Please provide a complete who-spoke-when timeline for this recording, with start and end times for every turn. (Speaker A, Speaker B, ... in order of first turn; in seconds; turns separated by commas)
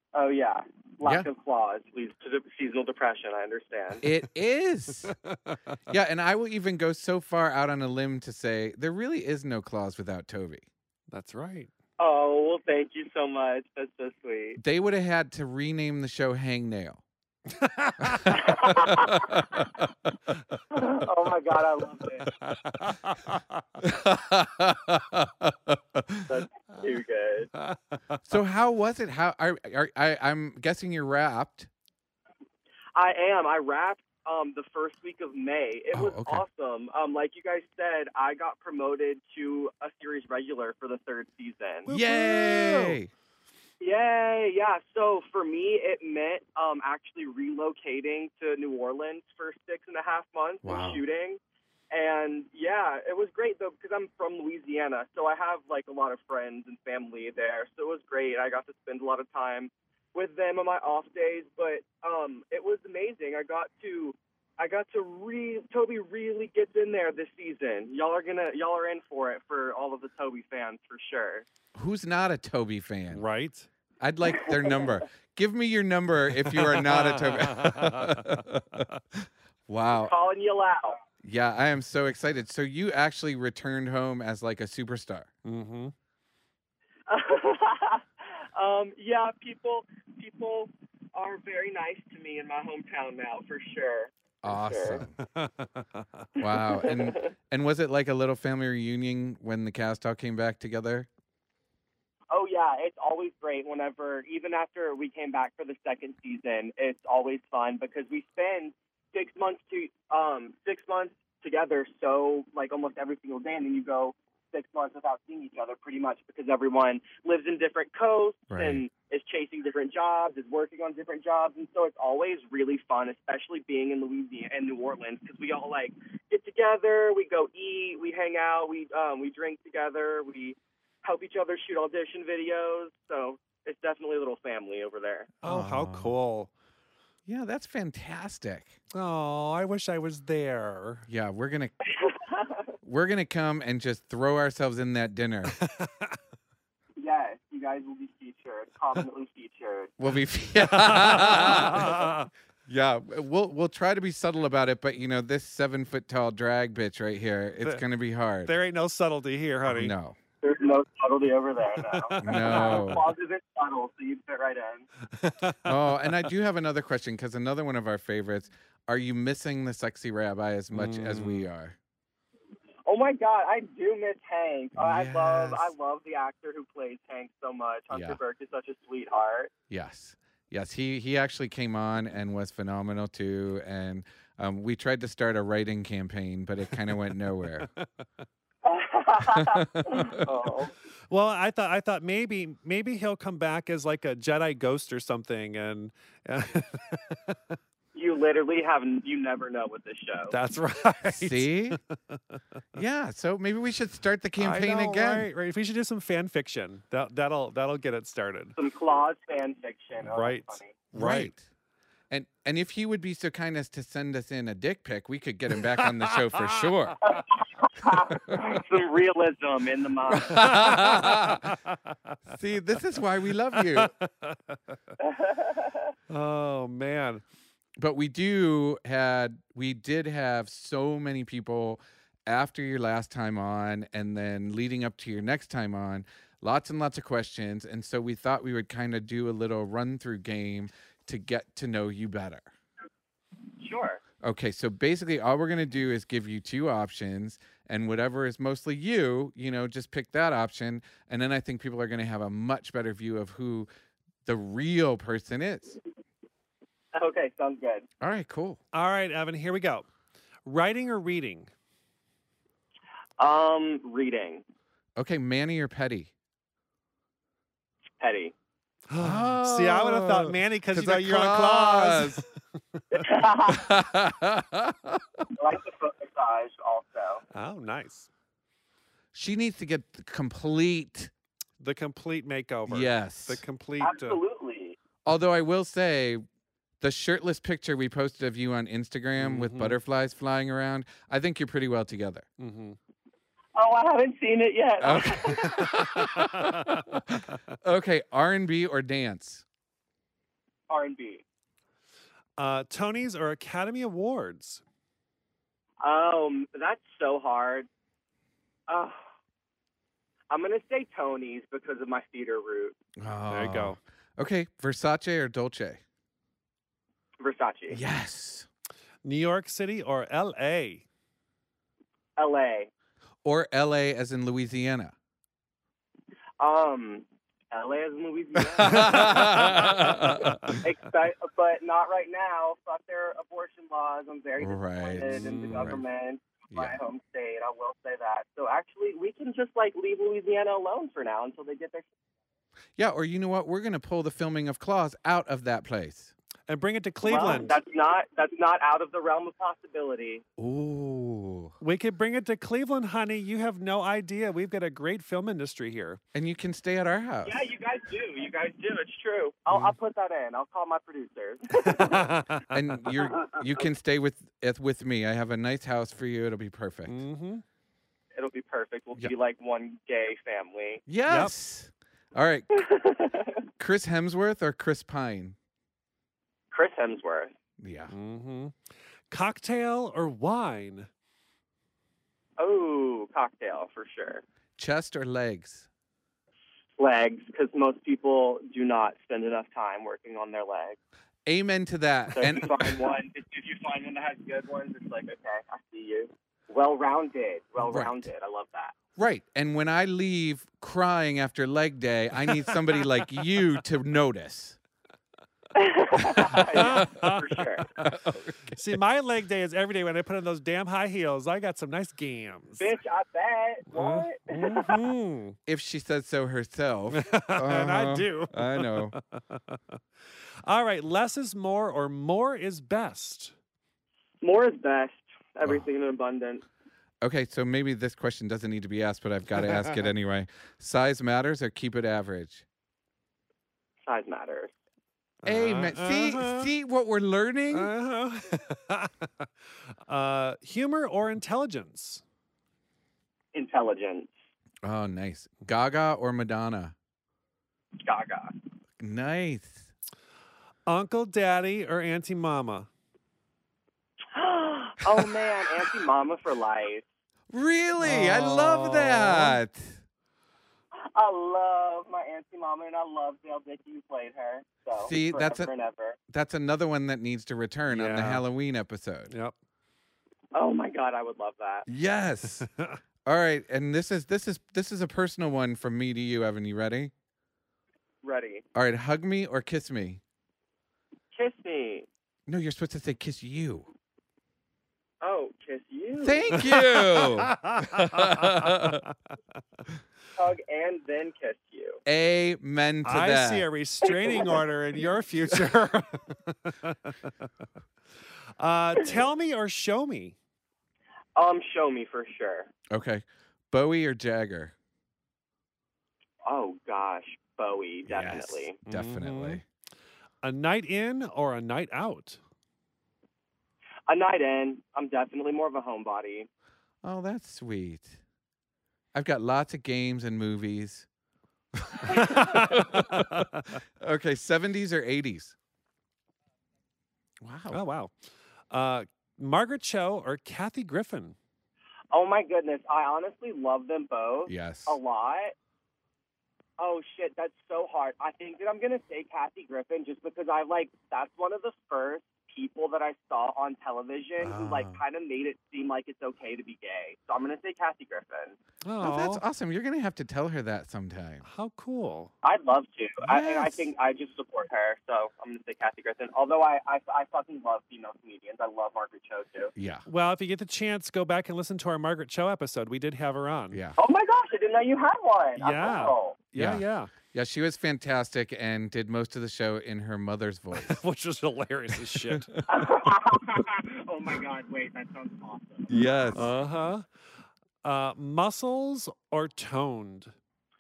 Speaker A: 0.1-4.0, Speaker B: 1.0-1.3, Speaker B: 4.0-5.1, Speaker C: 5.0-5.8, Speaker B: 5.9-10.7, Speaker C: 11.1-11.7, Speaker A: 12.0-14.6, Speaker B: 14.6-17.0, Speaker C: 17.5-18.5, Speaker B: 18.1-19.7, Speaker A: 18.3-19.4, Speaker A: 20.7-22.3, Speaker C: 22.2-23.6, Speaker B: 23.8-26.3, Speaker A: 26.3-27.5, Speaker C: 27.5-28.2, Speaker B: 28.2-31.7, Speaker A: 32.9-41.9, Speaker B: 35.9-36.4, Speaker C: 41.9-43.0, Speaker B: 41.9-43.1, Speaker A: 43.8-51.4, Speaker B: 50.6-51.0, Speaker A: 51.9-71.5, Speaker B: 71.7-73.2, Speaker C: 73.1-73.7, Speaker B: 74.0-80.1, Speaker A: 74.4-74.9, Speaker C: 76.5-79.0, Speaker A: 79.9-81.0, Speaker B: 81.2-85.3, Speaker C: 85.4-85.9, Speaker A: 87.1-95.0, Speaker B: 94.4-95.1, Speaker C: 95.2-96.3, Speaker B: 96.4-101.1, Speaker A: 96.4-97.3, Speaker A: 102.3-135.3, Speaker B: 118.5-118.8, Speaker C: 135.4-136.5, Speaker B: 135.4-136.1, Speaker B: 137.2-138.8, Speaker C: 138.9-141.1, Speaker B: 141.1-141.7, Speaker A: 141.9-142.7, Speaker B: 142.8-145.5, Speaker C: 145.5-146.2, Speaker A: 147.0-149.9, Speaker B: 150.0-152.0, Speaker C: 150.6-152.3, Speaker B: 152.7-158.5, Speaker C: 158.4-159.9, Speaker B: 159.7-160.2, Speaker A: 160.4-164.9, Speaker C: 161.8-163.0, Speaker B: 162.2-163.1, Speaker C: 165.1-166.3, Speaker B: 165.7-171.8, Speaker C: 170.7-171.5, Speaker A: 172.8-179.5, Speaker B: 174.8-175.7, Speaker B: 177.9-178.2, Speaker B: 179.7-187.7, Speaker C: 187.6-187.9, Speaker A: 188.6-190.7, Speaker B: 189.3-190.2, Speaker C: 191.1-197.6, Speaker A: 197.9-200.3, Speaker C: 200.3-202.4, Speaker B: 201.1-201.8, Speaker B: 202.7-205.3, Speaker C: 204.4-208.6, Speaker A: 208.6-210.7, Speaker C: 210.1-211.3, Speaker B: 210.9-211.4, Speaker B: 212.1-217.0, Speaker C: 215.8-217.2, Speaker A: 217.0-220.5, Speaker B: 220.2-221.5, Speaker C: 220.3-222.2, Speaker B: 222.3-223.9, Speaker C: 223.5-224.9, Speaker A: 225.0-225.8, Speaker C: 226.1-227.2, Speaker B: 227.8-242.5, Speaker A: 243.6-244.0, Speaker B: 244.2-253.7, Speaker B: 254.2-255.8, Speaker A: 256.9-257.9, Speaker B: 258.0-258.6, Speaker C: 258.7-259.9, Speaker C: 260.4-261.5, Speaker A: 263.2-264.4, Speaker B: 265.0-266.1, Speaker A: 268.0-268.3, Speaker C: 268.9-272.3, Speaker B: 269.0-272.2, Speaker A: 272.9-273.7, Speaker B: 273.5-275.2, Speaker A: 275.3-277.2, Speaker C: 277.3-278.1, Speaker B: 279.1-281.1, Speaker C: 281.6-284.2, Speaker B: 282.7-283.4, Speaker A: 283.8-284.8, Speaker B: 285.0-286.2, Speaker B: 286.8-292.2, Speaker C: 289.2-289.8, Speaker C: 292.4-292.8, Speaker A: 293.5-295.8, Speaker B: 294.8-299.4, Speaker C: 295.5-296.9, Speaker A: 300.7-301.2, Speaker C: 302.4-304.6, Speaker A: 305.8-307.7, Speaker A: 308.7-309.0, Speaker A: 310.3-312.8, Speaker B: 313.0-315.8, Speaker C: 313.3-313.8, Speaker A: 317.2-317.8, Speaker B: 317.7-318.5, Speaker C: 319.0-320.8, Speaker A: 322.2-322.7, Speaker B: 323.2-324.9, Speaker A: 326.4-329.6, Speaker B: 328.6-330.6, Speaker C: 328.6-330.6, Speaker A: 330.4-341.8, Speaker B: 334.4-335.8, Speaker C: 335.1-335.7, Speaker B: 336.5-336.8, Speaker B: 342.8-346.1, Speaker C: 346.5-347.5, Speaker A: 347.0-350.2, Speaker B: 350.4-351.5, Speaker C: 351.6-356.0, Speaker B: 356.1-357.4, Speaker A: 357.2-362.1, Speaker C: 361.5-362.6, Speaker B: 362.5-367.0, Speaker A: 363.1-363.4, Speaker C: 366.9-367.4, Speaker A: 368.1-370.8, Speaker B: 370.9-372.5, Speaker C: 371.1-371.3, Speaker A: 372.5-373.4, Speaker B: 373.6-375.4, Speaker A: 376.5-377.3, Speaker B: 377.6-377.9, Speaker C: 377.9-378.6, Speaker C: 379.1-380.9, Speaker A: 382.4-384.2, Speaker B: 384.6-385.7, Speaker A: 386.8-390.8, Speaker B: 391.2-392.8, Speaker A: 392.1-398.7, Speaker B: 397.6-398.1, Speaker B: 399.0-404.6, Speaker A: 405.5-407.7, Speaker C: 406.1-407.9, Speaker B: 407.8-408.6, Speaker C: 408.5-412.7, Speaker A: 412.6-414.8, Speaker C: 413.7-415.4, Speaker B: 415.4-418.9, Speaker C: 416.9-419.8, Speaker C: 420.4-423.3, Speaker A: 424.2-426.4, Speaker B: 427.0-432.4, Speaker A: 433.8-434.5, Speaker C: 435.2-436.5, Speaker B: 435.2-437.7, Speaker C: 437.5-442.0, Speaker A: 443.3-444.1, Speaker B: 444.6-446.7, Speaker A: 447.8-448.3, Speaker B: 448.8-449.7, Speaker C: 450.7-452.7, Speaker A: 454.1-456.8, Speaker B: 457.3-459.8, Speaker C: 457.8-459.4, Speaker A: 460.8-466.0, Speaker B: 464.8-465.5, Speaker B: 466.1-469.1, Speaker C: 467.7-468.2, Speaker C: 469.1-469.3, Speaker A: 470.3-471.6, Speaker B: 471.7-472.5, Speaker C: 472.4-472.8, Speaker B: 473.1-476.9, Speaker A: 478.0-478.4, Speaker B: 478.5-480.0, Speaker A: 481.1-481.9, Speaker B: 482.3-483.7, Speaker A: 485.0-486.5, Speaker B: 486.0-488.8, Speaker C: 486.5-488.7, Speaker A: 490.1-491.8, Speaker B: 491.9-493.5, Speaker C: 492.8-497.1, Speaker C: 498.4-500.1, Speaker A: 501.1-502.5, Speaker B: 502.7-504.5, Speaker A: 506.2-508.5, Speaker B: 507.9-509.4, Speaker C: 508.6-509.4, Speaker C: 510.2-512.2, Speaker A: 513.9-516.3, Speaker B: 516.8-518.0, Speaker B: 518.9-520.9, Speaker B: 521.6-523.2, Speaker C: 521.9-523.6, Speaker B: 523.8-525.4, Speaker B: 527.2-527.6, Speaker C: 527.5-527.9, Speaker C: 528.5-531.1, Speaker A: 531.9-535.3, Speaker B: 534.2-534.8, Speaker A: 536.6-548.4, Speaker B: 544.2-544.8, Speaker C: 548.6-549.2, Speaker B: 548.8-551.2, Speaker C: 551.2-552.1, Speaker A: 552.2-559.5, Speaker B: 553.0-553.7, Speaker B: 559.5-559.9, Speaker C: 559.9-563.6, Speaker B: 563.5-563.8, Speaker A: 563.8-566.2, Speaker C: 565.4-566.9, Speaker B: 566.4-570.8, Speaker C: 570.5-572.3, Speaker B: 571.9-572.4, Speaker A: 572.5-575.7, Speaker B: 575.7-576.3, Speaker C: 576.1-576.9, Speaker C: 577.6-580.1